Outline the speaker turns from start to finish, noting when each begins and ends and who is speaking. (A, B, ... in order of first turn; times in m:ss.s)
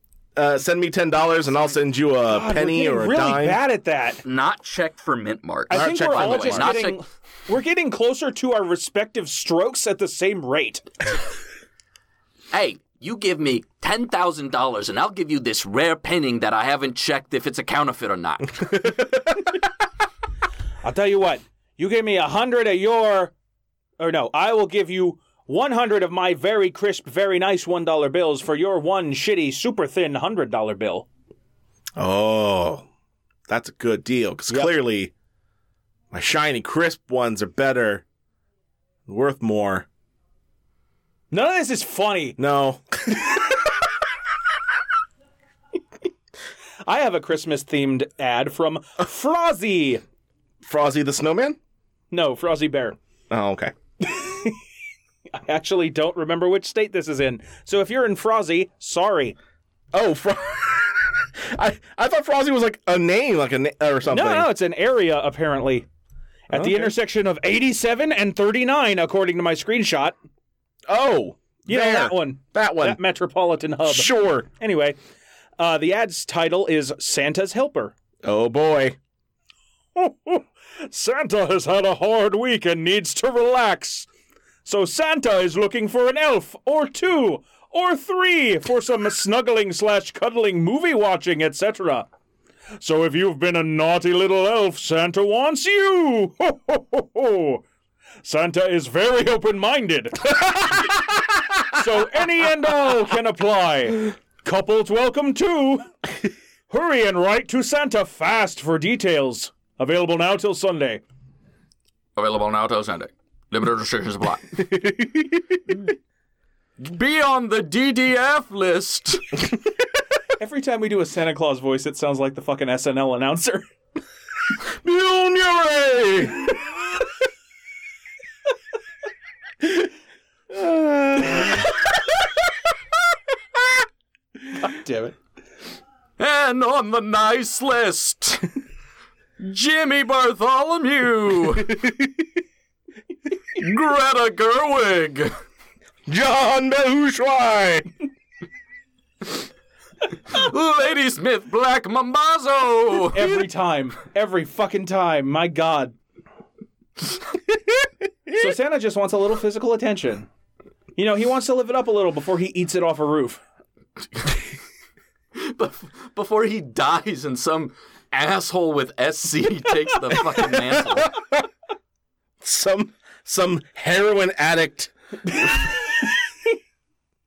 0:00.4-0:03.6 A
0:02.2-0:04.2 B
0:04.2-0:07.0 C
0:05.7-0:10.8 B
0:05.7-0:06.7 A
0:12.5-0:18.8 C
0:20.8-0:23.3 B
0:24.0-0:31.1 B
0:32.0-0:32.8 A
0:33.5-0:35.1 A
0:36.1-0:38.0 A
0:39.1-0:39.8 A
0:41.3-0:42.4 B
0:42.4-0:43.3 A
0:46.8-0:50.0 B
0:50.6-0:51.6 A
0:52.1-0:53.0 B
0:53.3-0:53.7 A
0:54.0-0:54.6 B
0:55.3-0:59.4 B
0:59.9-1:04.5 A
1:04.1-1:05.9 B
1:06.5-1:10.2 B
1:06.5-1:06.9 A
1:10.9-1:13.0 A
1:11.7-1:15.0 B
1:13.8-1:14.5 A
1:15.6-1:17.9 B
1:18.2-1:19.0 A
1:20.0-1:24.1 B
1:24.6-1:32.1 B
1:32.8-1:37.6 B
1:38.2-1:41.0 B
1:41.7-1:45.9 B
1:46.7-1:51.0 B
1:52.2-1:54.6 C
1:54.6-1:55.6 A
1:56.8-1:59.4 C
2:00.4-2:03.7 B
2:04.8-2:06.6 A
2:10.5-2:11.8 A
2:14.6-2:15.2 B
2:16.2-2:18.5 C
2:19.4-2:21.8 C
2:21.7-2:22.1 A
2:23.5-2:25.3 C
2:26.1-2:27.9 A
2:30.1-2:33.4 C
2:33.1-2:36.0 B
2:38.3-2:40.3 B
2:41.0-2:43.4 B
2:45.3-2:51.2 C
2:52.4-2:54.9 A
2:55.4-2:55.7 B